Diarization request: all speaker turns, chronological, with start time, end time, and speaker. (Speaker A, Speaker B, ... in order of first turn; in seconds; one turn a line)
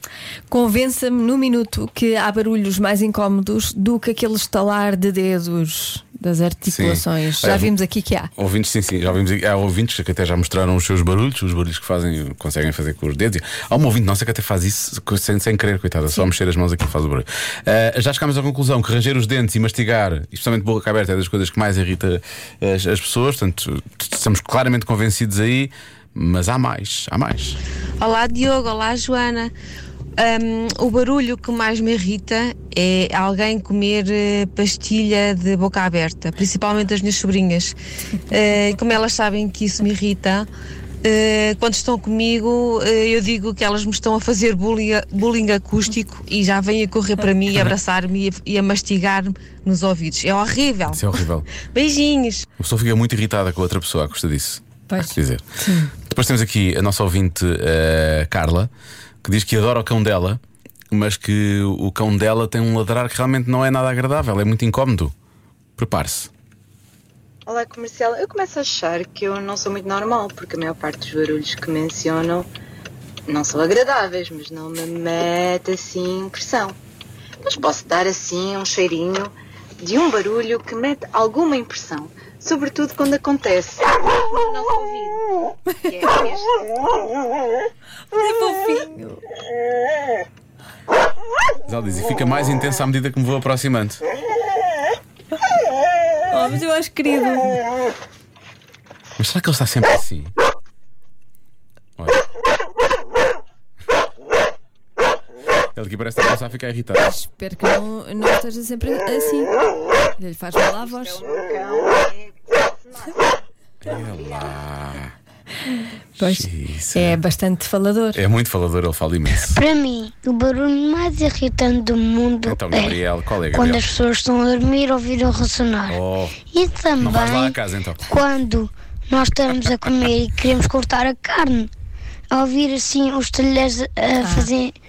Speaker A: 0.5-8.3
Speaker B: 6.7-7.7
Speaker B: 8.3-27.6
Speaker C: 28.0-29.5
Speaker C: 30.2-37.7
Speaker C: 38.3-40.5
Speaker C: 41.0-51.1
Speaker B: 50.9-51.5
Speaker C: 51.7-52.5
Speaker B: 52.6-55.4
Speaker A: 54.9-55.9
Speaker B: 56.0-58.7
Speaker B: 59.2-65.1
Speaker B: 65.8-66.3
Speaker D: 67.5-72.5
Speaker D: 73.3-76.8
Speaker D: 77.4-86.6
Speaker A: 88.1-89.2
Speaker B: 91.7-94.0
Speaker A: 96.3-97.6
Speaker B: 99.2-100.3
Speaker B: 102.0-102.2
Speaker B: 105.7-107.1
Speaker A: 107.0-109.6
Speaker A: 110.2-111.2
Speaker D: 110.8-113.3
Speaker B: 113.8-115.1
Speaker D: 114.1-114.5
Speaker B: 116.2-117.2
Speaker A: 116.2-118.2
Speaker B: 118.1-119.6
Speaker E: 119.5-123.0
Speaker B: 122.5-123.9
Speaker E: 123.5-131.7
Speaker B: 125.9-126.3
Speaker B: 127.0-128.0
Speaker E: 132.3-134.8
Speaker A: 134.2-134.5